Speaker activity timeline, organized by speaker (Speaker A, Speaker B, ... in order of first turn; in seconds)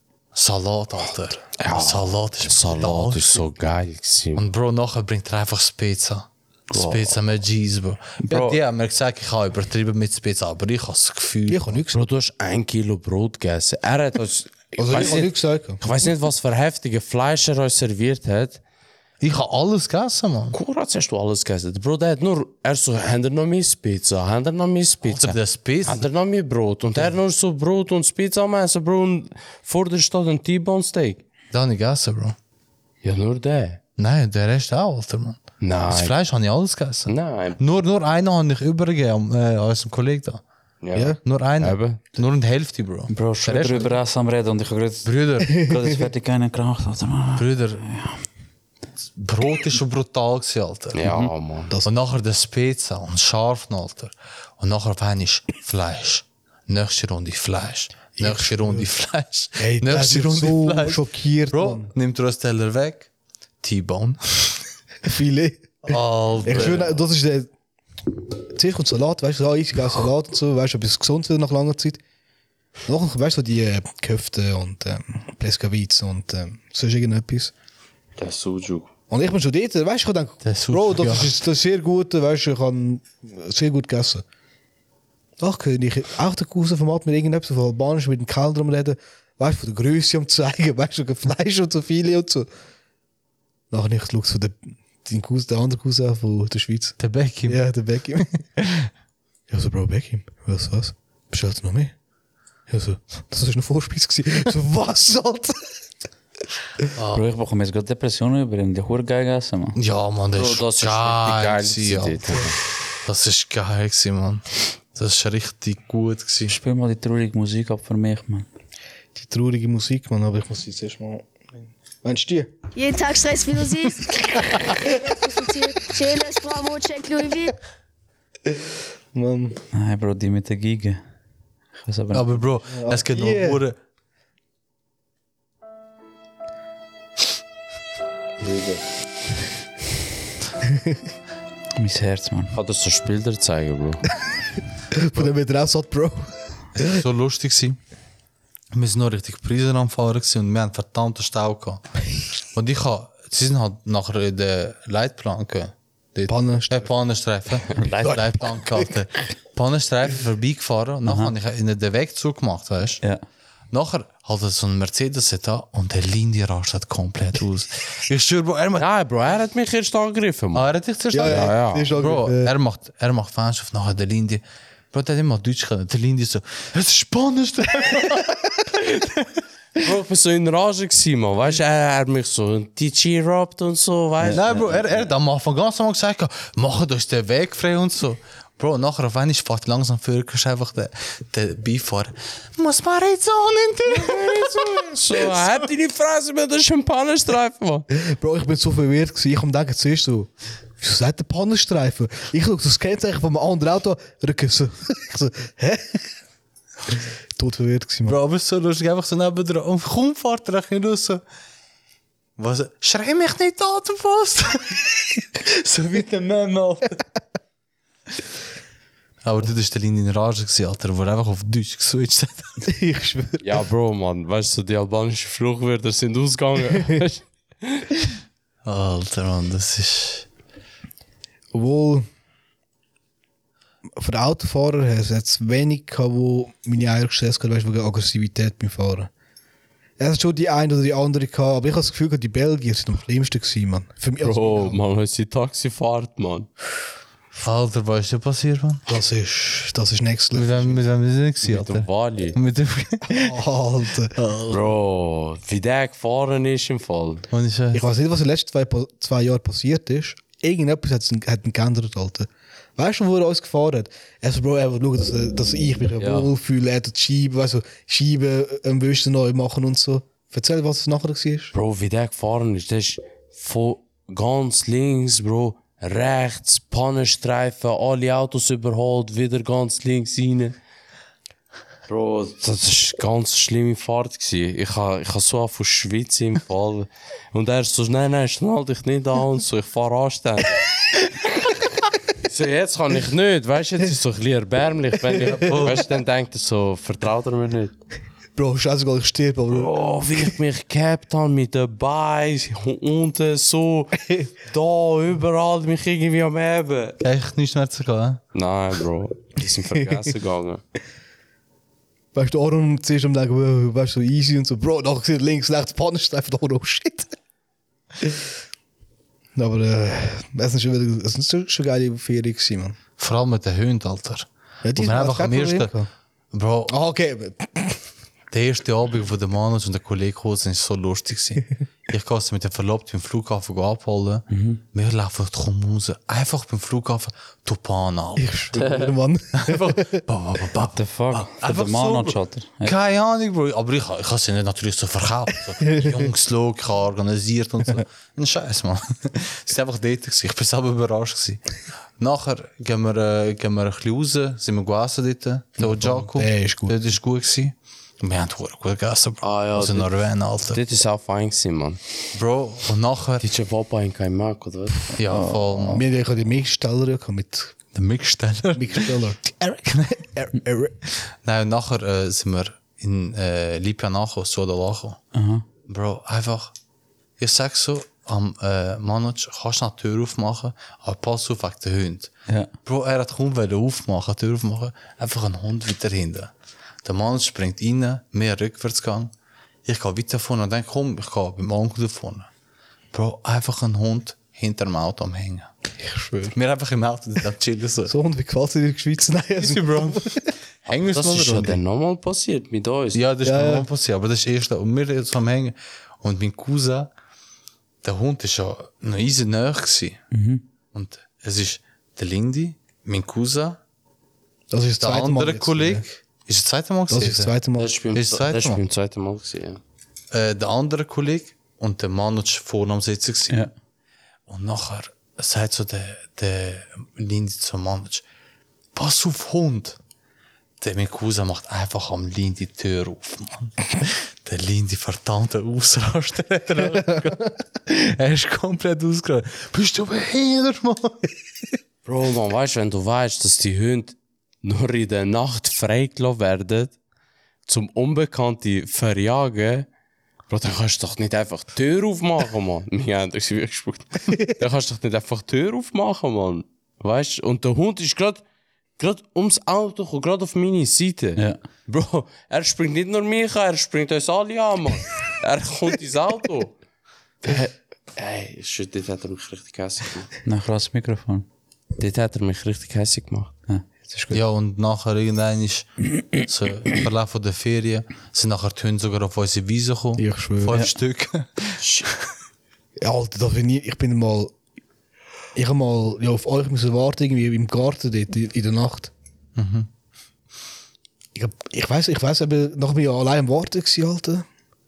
Speaker A: 0.3-3.4, 4.3-11.8, 19.2-20.6, 25.0-26.1, 31.5-32.4, 34.0-40.4, 41.2-44.0, 45.0-45.6, 47.4-47.9, 49.1-51.1, 51.8-63.1, 63.6-64.6, 65.8-67.0, 80.4-81.3, 97.0-97.6, 98.2-98.9, 106.9-107.2, 109.8-116.6, 132.1-133.8, 146.8-147.8, 148.7-151.9, 152.5-163.0, 163.7-168.9, 170.5-179.4, 184.3-195.7, 208.1-211.2, 212.4-217.0, 219.2-222.6, 228.7-230.3, 247.4-248.8, 250.3-253.4, 254.1-254.6, 257.3-257.8, 295.3-295.9, 307.0-308.2, 323.0-325.7, 326.3-326.8, 328.3-338.6, 339.3-360.6, 362.1-363.2, 364.9-365.8, 367.7-369.0, 369.7-370.0, 370.9-375.0, 375.6-376.5, 377.2-386.3, 386.8-389.1, 389.6-392.3, 392.9-395.5, 396.3-397.9, 399.4-401.6, 402.9-406.9, 407.8-410.0, 410.7-413.6, 414.8-417.3, 417.9-418.6, 420.1-423.4, 424.3-428.0, 428.8-429.8, 430.6-441.1, 474.1-481.9, 489.4-489.7
Speaker B: 1.6-4.4, 6.7-7.1, 11.9-18.6, 20.5-31.2, 33.0-33.8, 35.6-36.1, 37.1-37.6, 40.8-42.0, 50.9-51.7, 78.2-78.9, 110.3-112.6, 138.4-138.8, 142.5-144.0, 168.8-170.7, 171.2-171.9, 179.8-184.9, 193.9-197.9, 223.4-227.9, 244.2-246.5, 251.4-252.4, 254.5-257.2, 266.0-266.3, 271.5-280.5, 281.9-290.6, 292.2-297.8, 299.5-307.0, 308.3-310.6, 338.6-338.9, 359.2-359.9, 360.5-361.8, 363.2-364.9, 400.9-403.0, 417.6-419.6, 441.9-446.8, 447.5-449.7, 450.3-458.2, 458.8-466.5, 467.2-470.1, 471.8-473.4, 481.6-481.9
Speaker C: 8.2-8.6, 43.1-48.1, 51.0-51.3, 107.1-109.8, 116.5-118.5, 129.7-131.0, 131.8-132.4, 141.8-142.5, 157.8-158.2, 161.0-161.3, 334.3-334.6, 340.7-342.8, 365.0-365.8, 375.1-375.4, 410.1-410.4, 470.2-471.2, 473.5-474.2
Speaker D: 11.5-12.0, 14.8-15.8, 58.2-58.9, 59.6-61.9, 65.0-67.5, 68.5-72.0, 72.9-77.5, 79.1-84.2, 85.4-92.5, 93.7-98.4, 99.5-101.9, 102.7-105.6, 119.2-121.4, 122.0-122.5, 129.1-129.6, 132.7-133.6, 140.7-141.0, 144.9-147.0, 156.3-156.9, 158.0-158.9, 171.1-172.5, 197.9-206.1, 207.4-208.2, 222.6-223.5, 231.5-232.1, 234.0-239.1, 240.0-244.8, 248.9-250.8, 253.1-254.1, 257.7-271.5, 298.4-300.2, 312.1-317.1, 319.4-322.8, 324.6-325.9, 326.7-327.8, 338.2-340.0, 345.6-346.0, 355.6-356.9, 365.6-367.5, 368.5-370.8, 395.8-396.4, 397.9-400.3, 403.2-403.7, 414.5-415.8, 416.9-417.7, 480.0-480.6, 482.8-484.3, 485.4-488.9, 491.1-494.2
Speaker E: 122.8-127.5